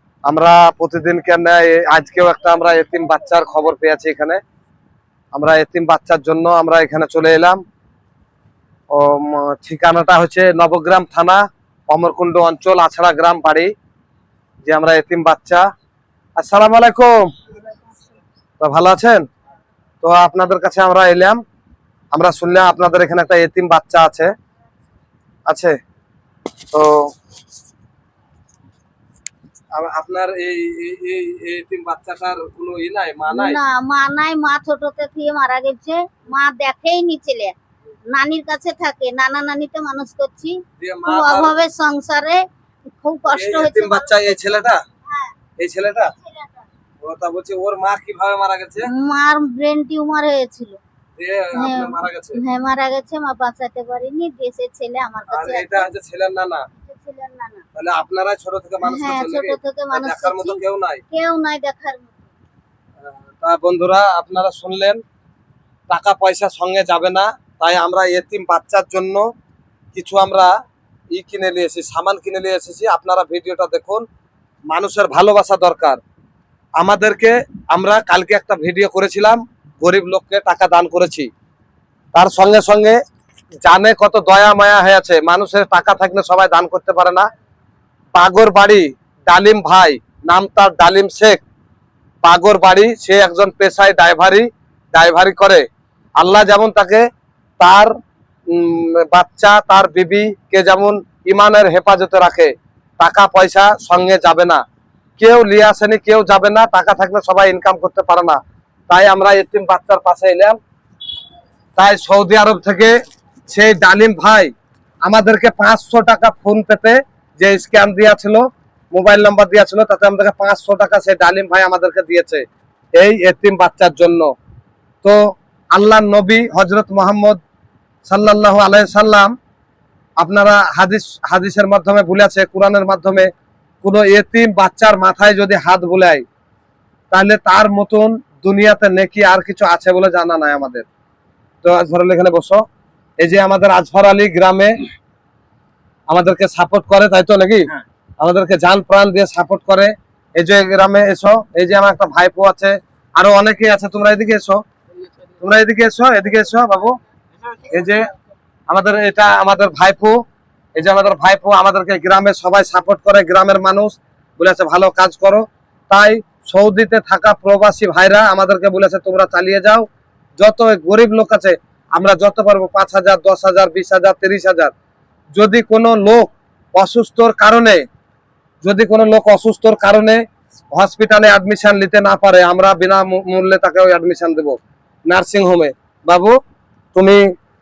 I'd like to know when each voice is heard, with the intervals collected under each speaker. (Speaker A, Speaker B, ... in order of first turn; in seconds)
Speaker A: 0.3-4.4, 5.3-7.6, 8.9-13.7, 14.6-15.7, 16.4-17.1, 18.6-19.2, 20.0-21.4, 22.1-24.3, 25.5-25.8, 26.7-27.1, 29.7-33.6, 40.8-41.6, 43.3-44.8, 45.6-46.1, 47.0-48.9, 51.2-52.4, 55.3-56.7, 57.7-61.0, 63.4-65.0, 65.9-69.2, 69.9-70.5, 71.1-74.0, 74.7-76.0, 76.8-81.3, 82.1-83.0, 83.6-87.3, 88.1-91.4, 92.2-95.6, 96.2-97.1, 97.6-97.9, 98.5-104.6, 105.2-110.6, 111.8-113.0, 113.5-114.5, 115.0-124.3, 125.0-127.4, 128.1-129.3, 130.2-133.3, 133.8-136.2, 137.1-140.8, 141.6-142.6, 143.2-144.8, 146.1-147.7, 148.2-154.6, 155.4-157.0, 157.7-158.1, 158.7-160.2, 160.8-169.8, 170.4-174.7, 175.3-177.8, 178.6-180.2, 180.7-186.4, 186.9-187.2
Speaker B: 33.3-37.5, 38.1-44.5, 45.0-45.4, 46.1-46.7, 48.9-50.8, 51.5-55.9, 56.8-57.6, 58.8-62.3